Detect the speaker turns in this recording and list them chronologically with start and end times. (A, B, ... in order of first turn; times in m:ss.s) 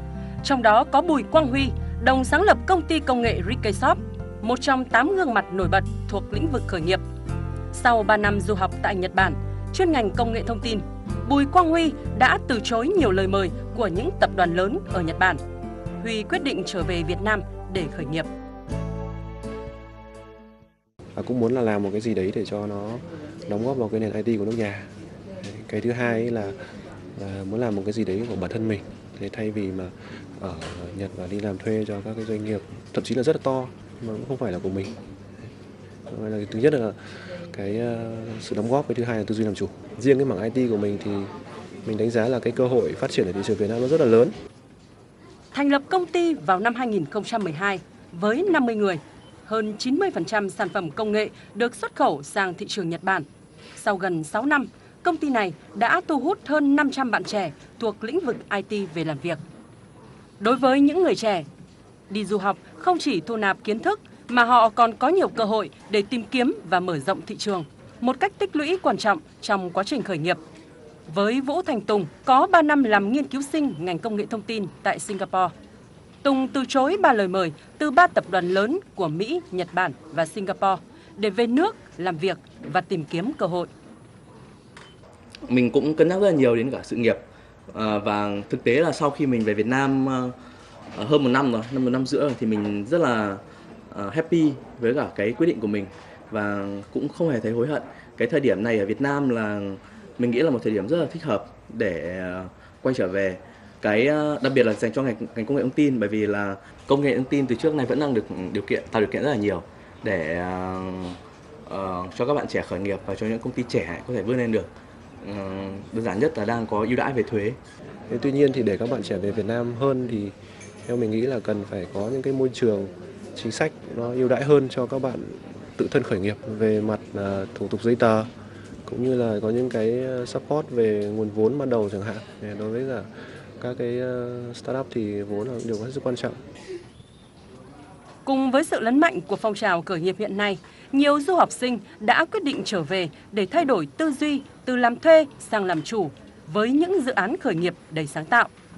0:00.4-0:07.0 A
0:07.7-0:15.4 A
0:16.0-0:18.3 A
0:21.2-0:24.9 B
0:25.4-0:26.6 B
0:27.2-0:34.9 B
0:36.1-0:37.0 B
0:37.5-0:41.3 B
0:41.8-0:44.3 B
0:45.5-0:59.4 A
1:00.4-1:01.4 A
1:02.1-1:10.4 A
1:11.1-1:15.5 A
1:16.2-1:23.7 A
1:25.4-1:30.3 C
1:30.9-1:54.7 C
1:55.2-1:57.6 C
1:58.1-2:00.3 B
2:00.8-2:08.3 B
2:08.9-2:13.0 B
2:13.6-2:16.4 B
2:18.2-2:28.5 A